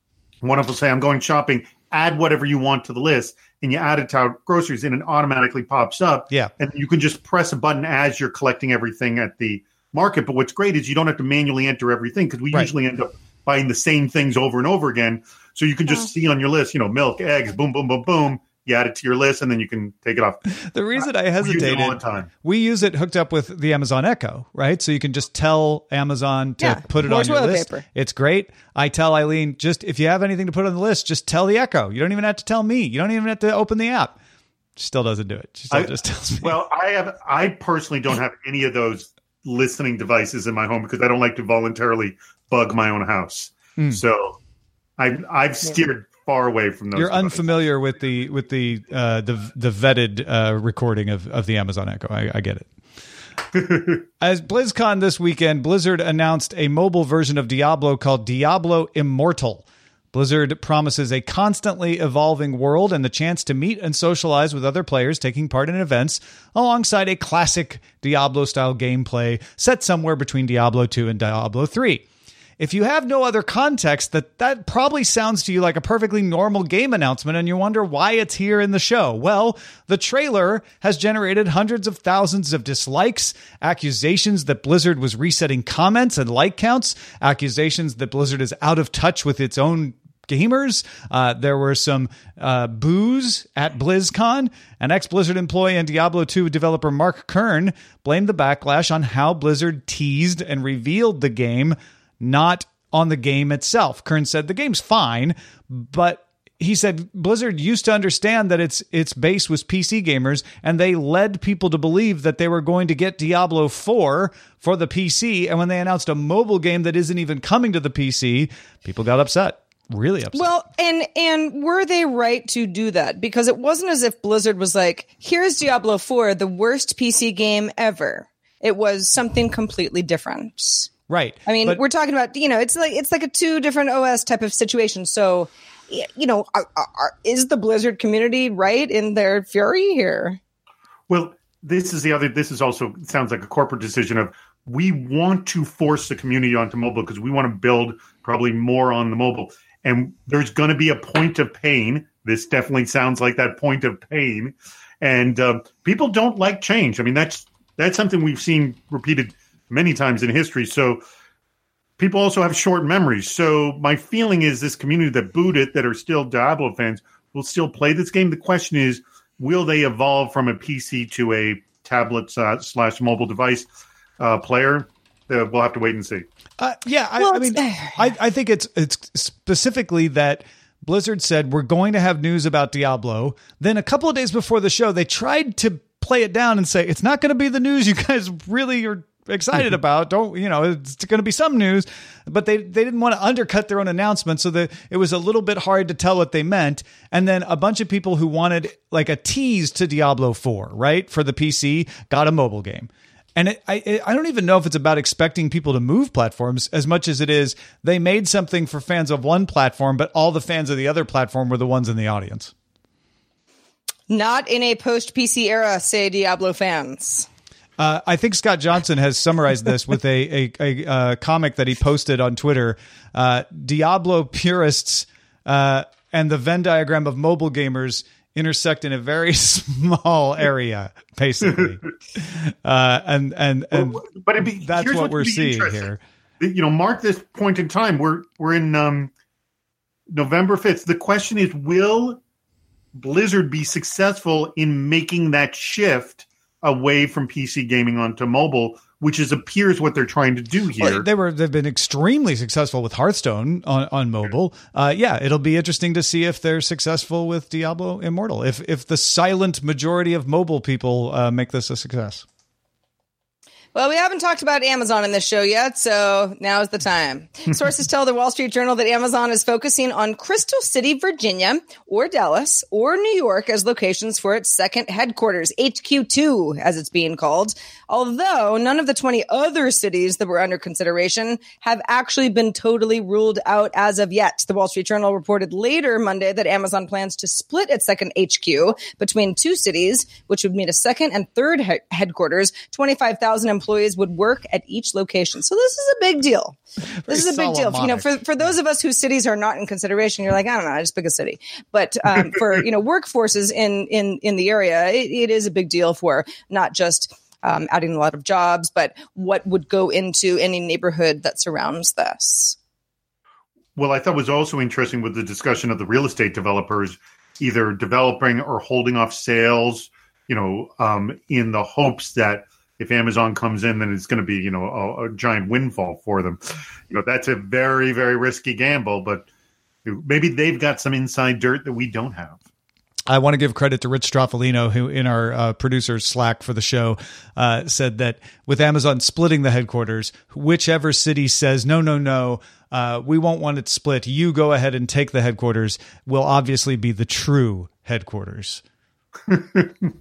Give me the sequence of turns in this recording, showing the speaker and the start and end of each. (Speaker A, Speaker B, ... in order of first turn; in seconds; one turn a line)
Speaker A: 0.4-20.4
Speaker B: 20.6-34.1
Speaker A: 20.9-22.3
Speaker C: 26.6-27.8
Speaker B: 34.8-36.5
Speaker A: 35.7-44.4
Speaker A: 45.0-47.5
Speaker B: 46.9-52.7
Speaker A: 53.5-54.0
Speaker B: 54.2-72.0
Speaker B: 72.6-120.5
Speaker C: 120.3-130.9
Speaker B: 131.1-131.8
Speaker C: 131.4-140.4
Speaker A: 141.1-161.0
Speaker A: 162.0-173.7
Speaker A: 174.2-176.2
Speaker B: 176.6-212.5
Speaker C: 177.2-177.9
Speaker C: 214.1-217.3
Speaker B: 217.8-234.0
Speaker A: 233.7-235.9
Speaker B: 234.6-236.0
Speaker A: 236.4-239.1
Speaker A: 240.1-242.2
Speaker A: 242.9-251.1
Speaker B: 250.8-262.2
Speaker C: 263.7-312.6
Speaker B: 297.0-298.1
Speaker A: 313.8-329.3
Speaker A: 329.8-332.4
Speaker B: 333.1-348.6
Speaker A: 349.3-349.6